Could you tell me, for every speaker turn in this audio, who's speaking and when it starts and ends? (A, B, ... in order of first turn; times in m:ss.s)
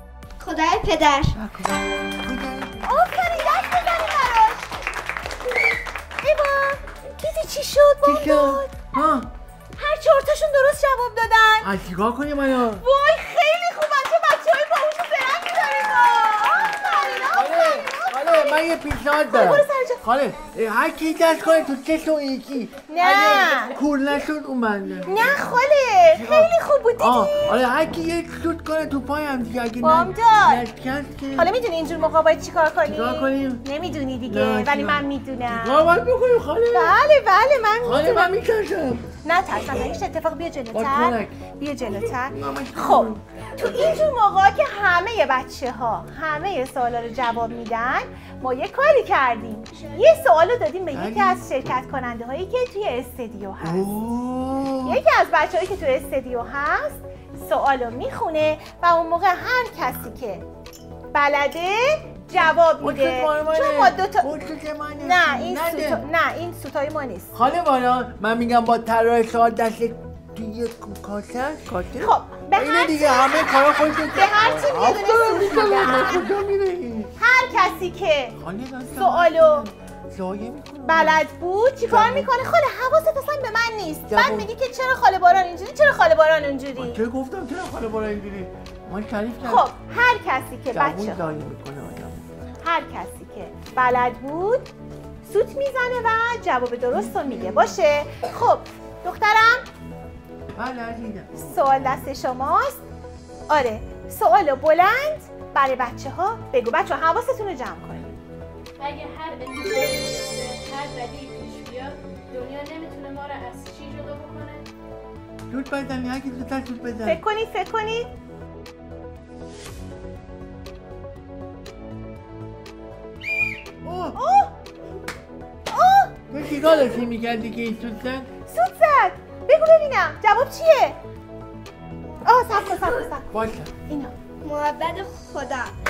0:00.4-0:01.4 A
0:01.3-0:02.9 B
0:02.8-0:04.7 C
0:06.2-0:08.8 C
0:08.0-0:09.3 B
0:09.8-0:11.7 C
0:11.6-0:12.8 B
0:12.8-0:18.7 C
0:17.2-0:25.4 B
0:19.2-0:20.0 C
0:22.9-0:23.8 C
0:25.1-0:27.6 C
0:26.1-0:31.5 B
0:29.8-0:30.6 C
0:31.4-0:35.8 C
0:32.8-0:33.6 B
0:34.2-0:37.0 B
0:36.7-0:38.3 C
0:37.8-0:39.2 B
0:39.2-0:53.9 C
0:40.7-0:44.1 B
0:50.9-0:51.4 B
0:53.6-0:55.0 B
0:54.8-1:00.4 C
1:01.1-1:04.3 C
1:02.8-1:06.0 B
1:05.0-1:07.3 C
1:07.3-1:17.1 B
1:12.0-1:13.6 C
1:14.1-1:16.2 C
1:17.2-1:18.4 C
1:18.4-1:21.2 B
1:18.9-1:19.7 C
1:20.8-1:27.0 C
1:21.8-1:22.3 B
1:24.1-1:24.5 B
1:26.8-1:29.7 B
1:29.4-1:31.2 C
1:30.7-1:32.5 B
1:32.6-1:34.7 C
1:35.2-1:39.6 C
1:36.9-1:37.8 B
1:40.5-1:42.0 B
1:41.4-1:42.8 C
1:43.5-1:48.2 C
1:48.8-1:54.6 D
1:55.5-1:57.2 B
1:57.0-1:58.1 C
2:03.8-2:04.2 B
2:04.2-2:04.5 C
2:05.7-2:06.8 C
2:06.3-2:08.3 B
2:08.5-2:11.0 C
2:12.2-2:13.3 C
2:13.3-2:13.7 B
2:13.9-2:14.1 C
2:14.5-2:15.7 A